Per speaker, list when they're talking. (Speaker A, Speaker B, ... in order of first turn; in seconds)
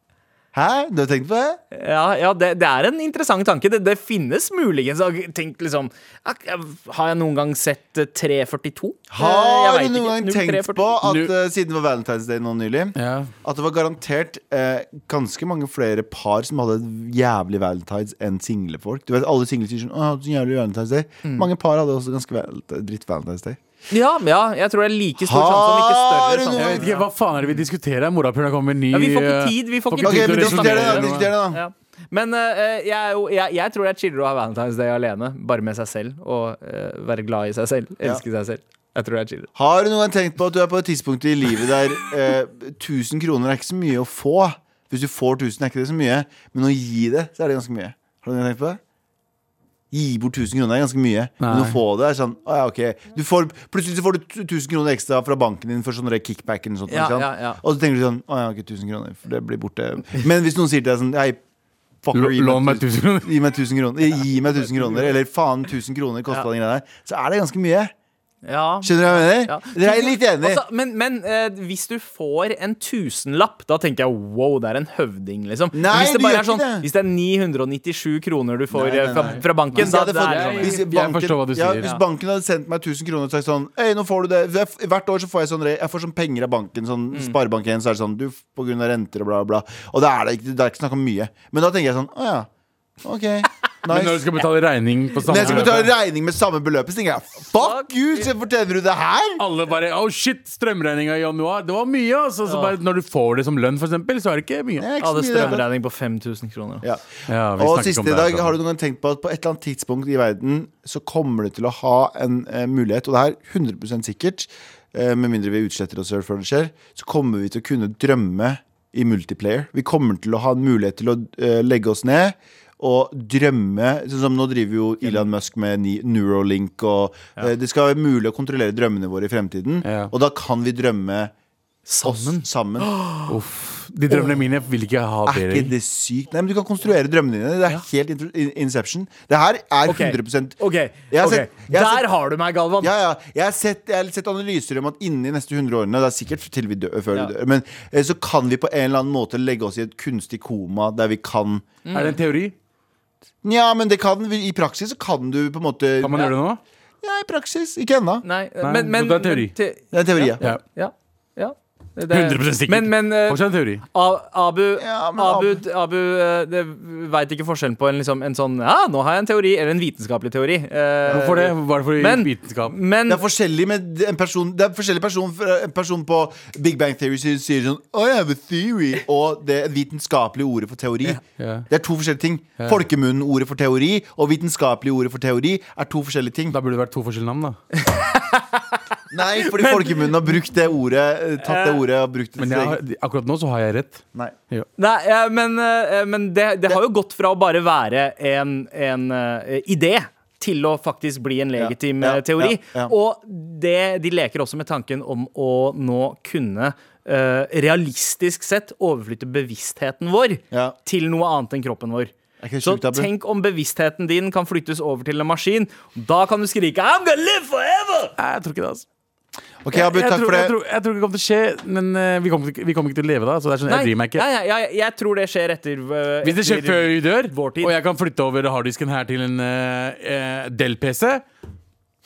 Speaker A: 0.5-1.6, 9.1-23.6, 25.2-26.9, 30.0-31.6, 39.5-48.8, 49.9-61.4, 62.0-67.9, 68.8-70.6, 75.7-76.9, 78.7-92.5, 93.0-94.3, 95.3-99.4, 104.8-105.7, 106.8-131.3, 132.0-132.9, 135.3-140.6, 141.1-142.1, 142.8-151.7, 153.4-156.3, 157.0-158.2, 159.9-160.4, 164.8-165.6, 171.1-171.3, 173.1-186.6, 189.1-192.8, 201.6-202.9, 210.5-210.8, 212.4-213.1, 219.6-220.6
Speaker B: 1.7-11.0, 23.9-27.6, 28.9-39.5, 56.9-57.6, 64.8-65.1, 68.5-80.8, 87.1-87.4, 95.4-95.7, 97.5-98.2, 102.5-102.8, 105.0-106.9, 125.0-125.3, 131.9-133.4, 139.9-142.9, 151.8-152.2, 158.2-173.2, 187.8-188.8, 189.4-190.2, 191.4-191.8, 194.8-218.2, 223.7-227.7
Speaker C: 11.0-11.3, 13.0-13.3, 26.6-31.3, 51.4-51.8, 62.1-63.4, 79.2-81.9, 93.9-95.9, 99.4-104.9, 107.3-108.6, 129.8-130.1, 133.3-135.7, 151.9-152.5, 156.0-156.6, 158.6-159.5, 162.1-163.8, 171.1-172.8, 181.4-181.7, 186.5-187.6, 192.4-194.7, 218.2-218.8, 219.7-224.2, 226.2-231.2